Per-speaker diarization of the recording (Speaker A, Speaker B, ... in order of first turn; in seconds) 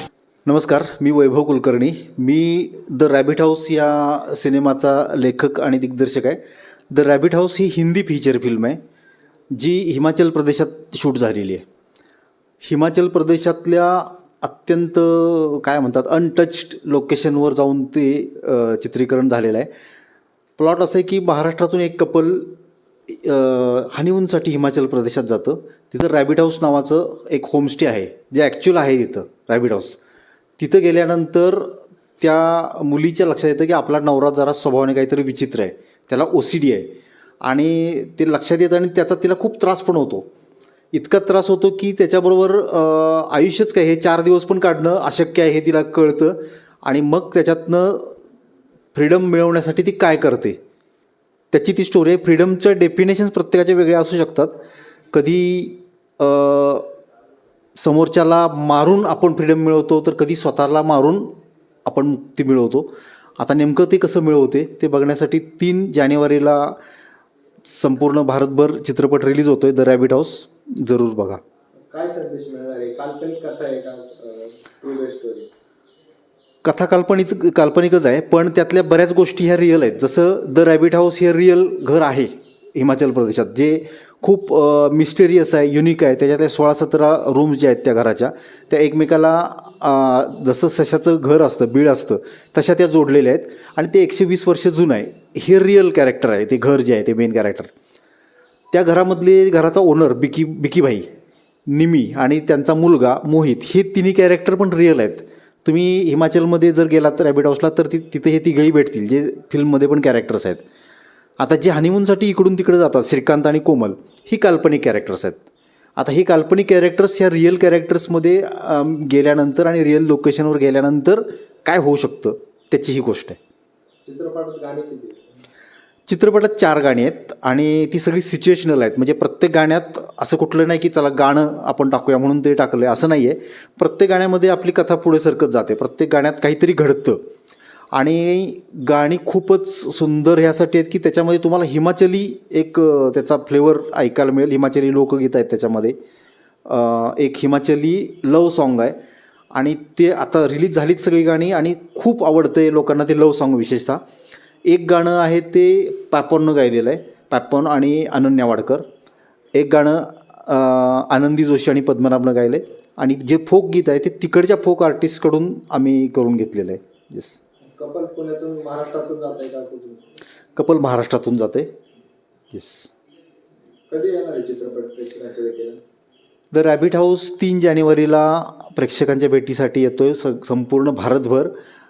Speaker A: 0.5-8.8, 9.5-11.6, 12.6-19.7, 20.6-30.0, 30.6-40.3, 40.9-48.1, 48.9-50.6, 51.5-56.9, 57.8-66.8, 67.6-71.4, 76.6-97.7, 98.7-101.1, 101.7-110.6, 111.4-115.4, 116.0-123.4, 126.1-137.2, 137.9-146.0, 146.7-149.0, 149.5-154.0, 154.7-158.8, 159.5-167.3, 170.6-171.7, 172.5-172.9, 176.5-181.5
Speaker B: 71.8-75.5, 124.0-125.3, 167.6-170.0, 173.9-175.8